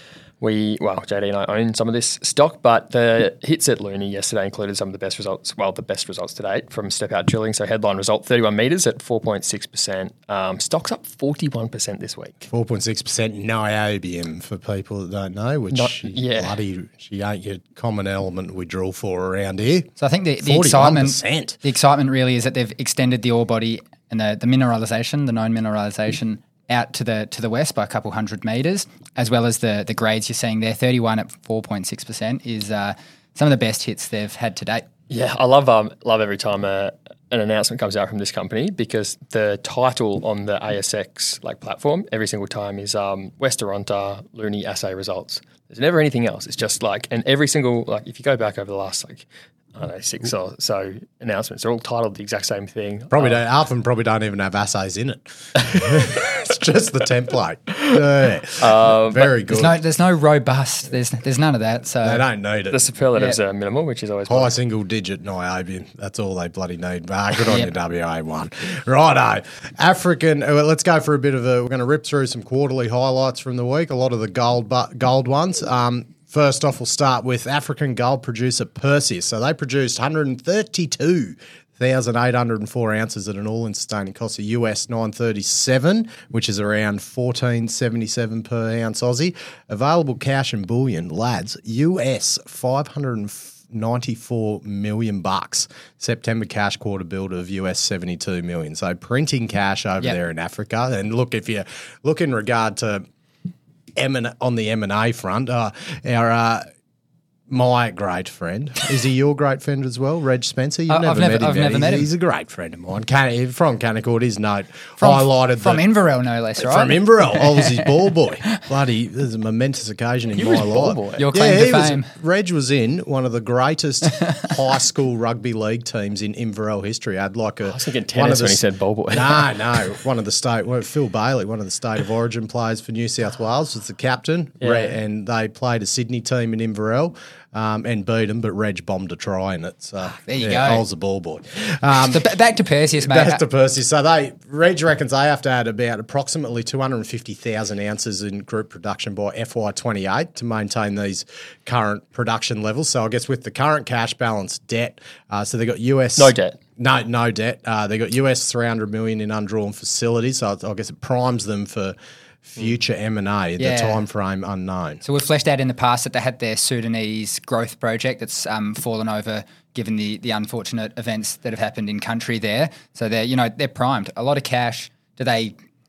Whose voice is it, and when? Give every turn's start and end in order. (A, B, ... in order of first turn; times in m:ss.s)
0:00.4-0:12.5 A
0:12.5-0:21.6 B
0:15.7-0:16.6 A
0:20.0-0:34.9 C
0:35.1-0:53.4 A
0:53.1-0:59.8 B
0:58.6-0:59.4 A
0:59.5-1:02.2 C
1:02.0-1:02.8 B
1:02.7-1:04.5 A
1:04.3-1:43.0 B
1:07.4-1:07.7 C
1:44.0-1:46.6 B
1:47.5-1:55.8 B
1:50.9-1:52.1 C
1:55.0-1:58.1 C
1:56.6-2:08.6 B
2:00.4-2:01.2 A
2:01.2-2:02.1 C
2:07.6-2:09.8 A
2:09.1-2:22.2 B
2:14.6-2:15.0 A
2:20.1-2:20.8 C
2:21.9-2:23.4 C
2:23.0-2:45.0 B
2:36.2-2:36.6 A
2:43.6-2:44.0 C
2:45.0-2:55.5 C